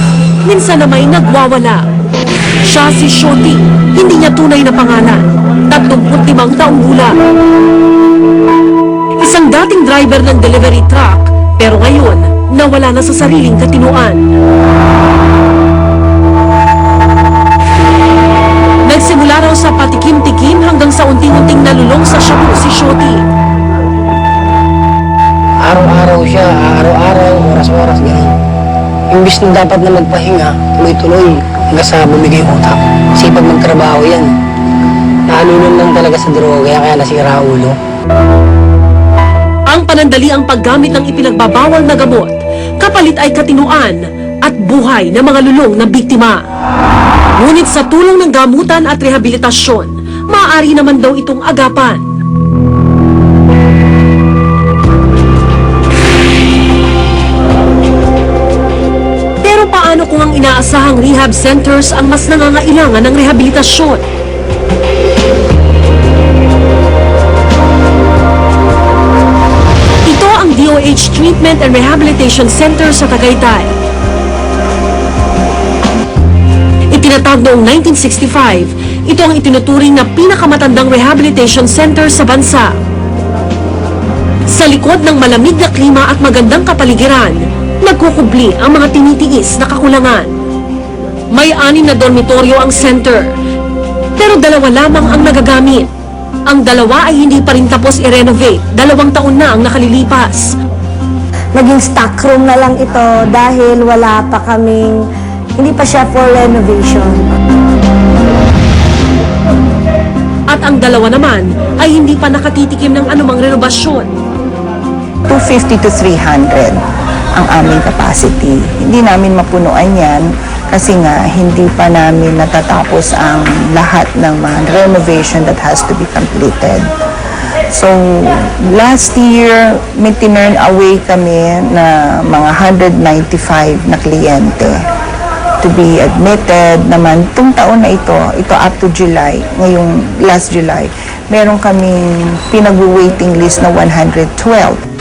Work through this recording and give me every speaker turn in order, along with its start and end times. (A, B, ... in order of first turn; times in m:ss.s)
0:00.4-0:01.8 A
0:02.6-0:07.2 A
0:09.2-0:14.2 A
0:18.8-0:23.2 A
0:25.7-0:28.3 B
0:29.2-0:34.3 B
0:35.3-0:37.7 B
0:39.7-0:46.4 A
0:47.4-0:52.0 A
0:59.4-1:04.0 A
1:10.0-1:13.7 A
1:16.9-1:22.7 A
1:24.5-1:30.3 A
1:31.3-1:33.3 A
1:34.2-1:35.9 A
1:36.5-1:40.5 A
1:41.5-1:45.0 C
1:45.6-1:47.3 C
1:50.5-1:54.1 A
1:55.3-1:56.8 D
1:57.3-2:06.9 D
2:07.7-2:14.8 D
2:15.6-2:24.8 D